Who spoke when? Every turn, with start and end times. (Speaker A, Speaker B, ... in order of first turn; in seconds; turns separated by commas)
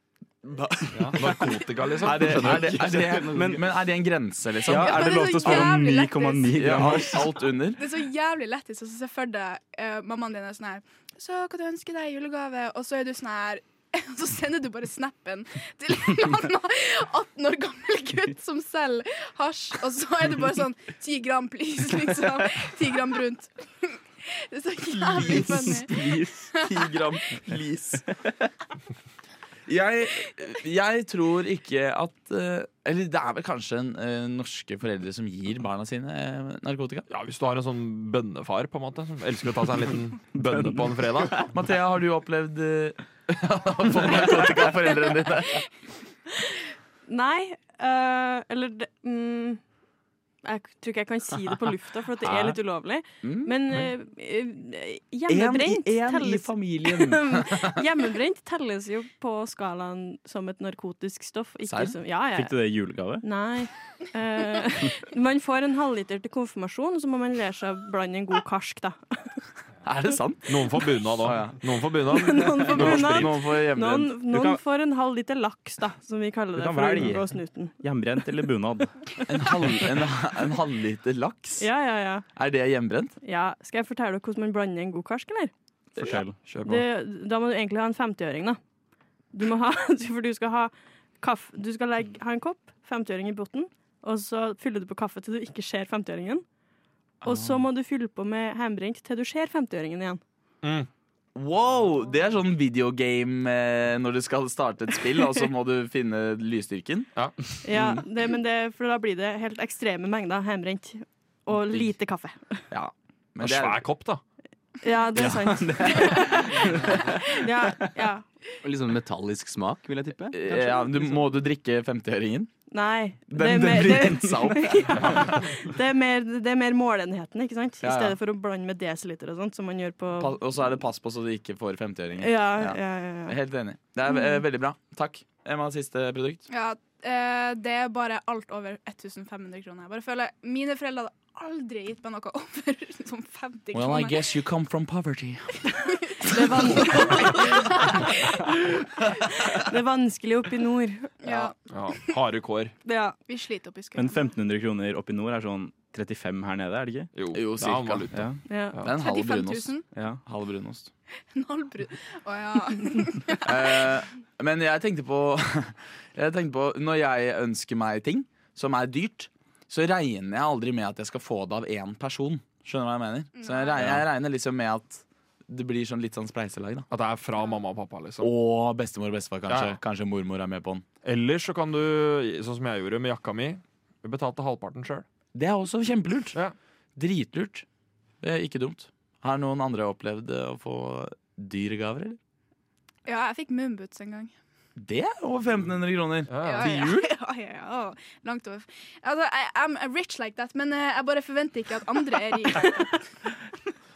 Speaker A: 0.4-1.5, Speaker B: 1.1-2.9, Speaker A: 2.0-5.7, Speaker C: 2.4-3.6, Speaker D: 3.3-3.6, Speaker D: 4.7-7.3, Speaker E: 4.7-26.0, Speaker A: 6.5-7.8, Speaker A: 24.9-28.0, Speaker D: 25.2-26.5, Speaker E: 26.6-26.9, Speaker A: 29.7-37.1, Speaker B: 37.1-41.5, Speaker A: 41.4-45.7, Speaker F: 47.1-49.6, Speaker F: 50.4-62.6, Speaker A: 53.2-53.6, Speaker A: 55.3-57.8, Speaker A: 61.6-62.0, Speaker D: 62.3-63.2, Speaker F: 63.2-69.2, Speaker A: 69.8-70.7, Speaker B: 70.5-73.4, Speaker A: 71.2-71.6, Speaker F: 72.1-77.8, Speaker A: 72.7-74.2, Speaker D: 74.3-74.6, Speaker D: 76.5-78.9, Speaker A: 79.3-81.7, Speaker F: 81.6-82.3, Speaker A: 82.3-83.2, Speaker F: 83.2-85.5, Speaker D: 86.0-86.4, Speaker B: 86.5-86.8, Speaker F: 86.6-88.6, Speaker F: 89.3-96.4, Speaker A: 97.2-97.6, Speaker F: 97.2-100.2, Speaker B: 100.6-100.9, Speaker A: 101.3-107.1, Speaker F: 107.6-112.6, Speaker A: 107.7-108.0, Speaker A: 112.7-113.8, Speaker B: 113.4-114.2, Speaker F: 114.8-118.2, Speaker D: 115.5-116.7, Speaker C: 118.6-120.6, Speaker A: 120.3-122.5, Speaker F: 122.7-130.4, Speaker A: 123.3-125.2, Speaker A: 127.8-128.2, Speaker A: 130.2-136.4, Speaker F: 132.2-133.4, Speaker E: 136.5-144.2, Speaker A: 143.7-145.5, Speaker E: 146.1-148.1, Speaker F: 146.2-148.6, Speaker F: 149.1-151.1, Speaker E: 151.2-151.5, Speaker A: 151.2-151.5, Speaker B: 151.7-152.8, Speaker F: 152.8-153.2, Speaker E: 153.3-154.3, Speaker D: 154.0-157.1, Speaker B: 157.2-158.9, Speaker A: 157.3-158.1, Speaker D: 158.1-158.4, Speaker F: 158.5-158.8, Speaker A: 158.8-160.9, Speaker E: 158.9-159.9, Speaker D: 159.9-160.2, Speaker E: 161.3-163.9, Speaker A: 163.4-176.9, Speaker E: 173.4-174.0, Speaker B: 176.9-178.3, Speaker A: 178.2-180.8, Speaker B: 179.5-179.8, Speaker B: 181.0-185.1, Speaker A: 185.3-186.4, Speaker A: 187.0-187.7, Speaker A: 188.2-192.2, Speaker E: 193.1-194.3, Speaker A: 194.8-197.1, Speaker B: 196.3-196.7, Speaker E: 196.4-203.0